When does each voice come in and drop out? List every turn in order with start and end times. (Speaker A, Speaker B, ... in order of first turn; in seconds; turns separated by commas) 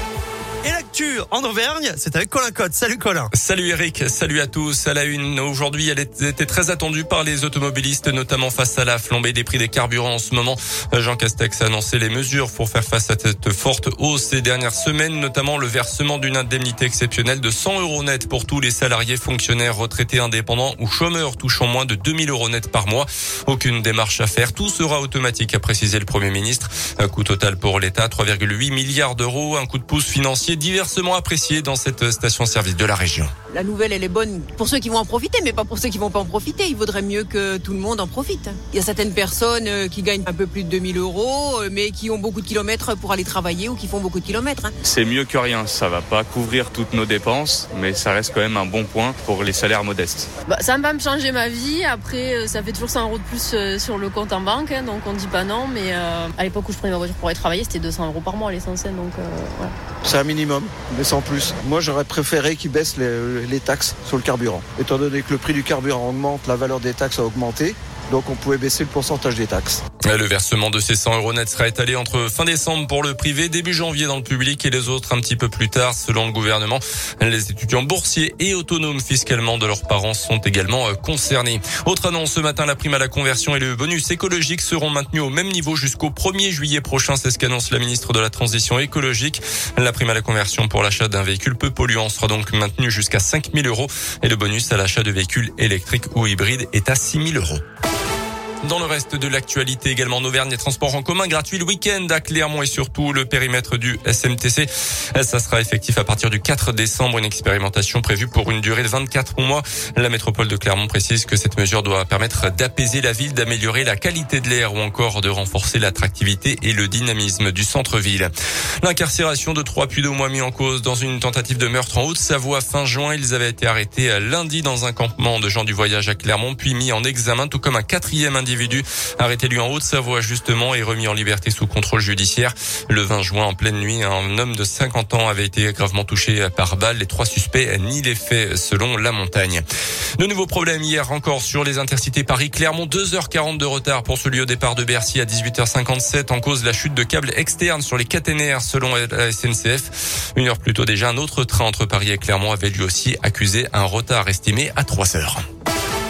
Speaker A: 0.6-3.3, Speaker B: 3.3-33.3, Speaker C: 33.5-44.7, Speaker D: 44.9-50.3, Speaker E: 50.5-59.7, Speaker F: 60.0-69.8, Speaker B: 70.0-97.6, Speaker B: 98.6-118.3, Speaker B: 118.8-139.6, Speaker B: 140.2-155.4